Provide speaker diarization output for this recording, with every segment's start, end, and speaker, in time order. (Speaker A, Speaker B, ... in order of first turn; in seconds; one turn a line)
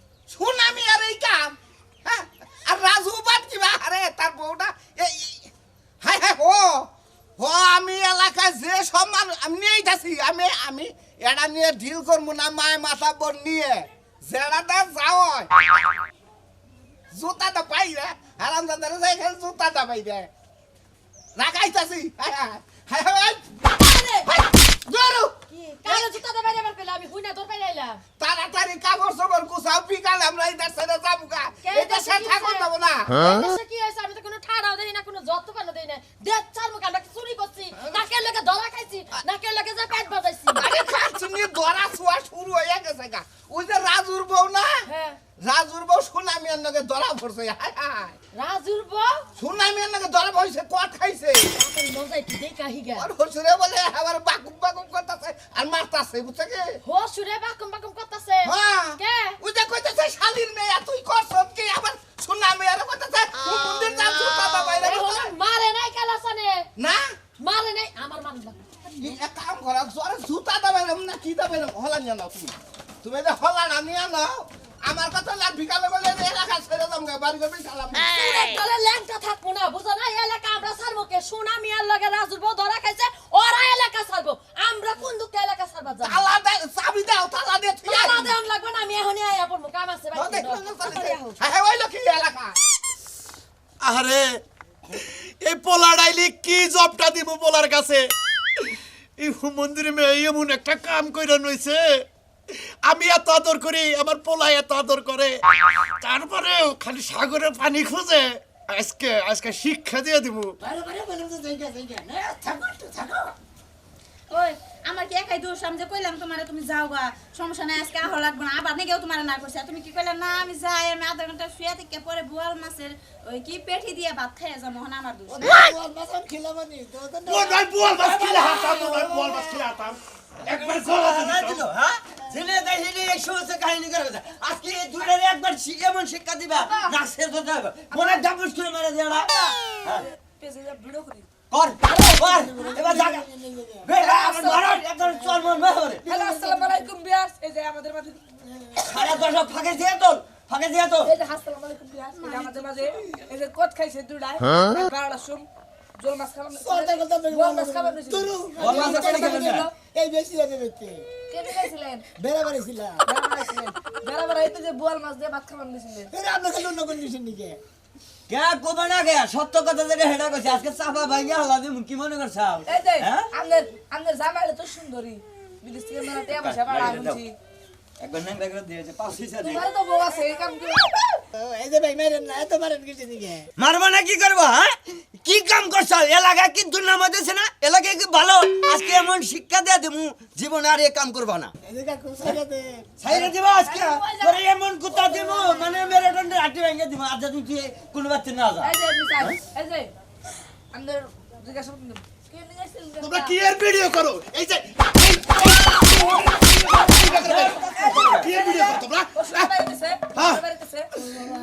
Speaker A: 0.3-15.5
Speaker A: 17.1-20.3
Speaker A: 21.4-23.4
Speaker B: 23.8-24.3
Speaker A: 24.2-26.1
Speaker B: 25.8-28.0
Speaker A: 28.2-33.1
Speaker B: 31.7-32.6
Speaker B: 33.3-40.7
Speaker A: 37.8-38.0
Speaker A: 40.5-44.8
Speaker B: 44.9-45.2
Speaker A: 45.4-48.1
Speaker B: 48.3-49.1
Speaker A: 49.4-51.5
Speaker B: 51.5-53.1
Speaker A: 53.0-56.8
Speaker B: 56.8-59.2
Speaker A: 58.4-65.3
Speaker B: 64.8-66.6
Speaker A: 66.8-67.1
Speaker B: 67.4-68.6
Speaker A: 69.0-78.1
Speaker B: 78.0-86.2
Speaker A: 86.0-88.3
Speaker B: 87.8-91.1
Speaker A: 90.1-92.6
Speaker C: 93.8-94.4
Speaker C: 95.4-102.0
Speaker C: 102.5-105.3
Speaker C: 106.0-110.5
Speaker D: 110.6-113.3
Speaker E: 114.3-125.6
Speaker D: 125.3-129.3
Speaker C: 127.3-130.0
Speaker F: 130.4-140.0
Speaker C: 130.5-131.6
Speaker B: 139.9-141.2
Speaker F: 141.5-143.3
Speaker D: 142.1-143.9
Speaker F: 143.8-146.0
Speaker B: 143.9-144.8
Speaker D: 145.1-145.5
Speaker B: 146.1-148.2
Speaker D: 146.1-146.8
Speaker F: 148.8-151.1
Speaker D: 148.8-149.2
Speaker B: 151.0-155.5
Speaker B: 156.0-159.7
Speaker D: 156.5-161.0
Speaker F: 158.6-159.7
Speaker B: 161.3-162.0
Speaker D: 162.2-163.0
Speaker B: 163.0-166.1
Speaker D: 166.1-167.6
Speaker F: 168.3-173.3
Speaker B: 172.7-177.3
Speaker F: 176.4-177.2
Speaker F: 178.0-179.6
Speaker B: 179.4-181.0
Speaker D: 181.3-183.5
Speaker F: 183.6-191.5
Speaker D: 191.6-193.2
Speaker F: 193.0-199.4
Speaker B: 193.6-194.4
Speaker B: 195.2-195.6
Speaker B: 198.6-199.9
Speaker B: 200.7-203.3
Speaker C: 203.0-209.5
Speaker F: 207.1-208.3
Speaker B: 207.2-210.9
Speaker C: 210.1-210.4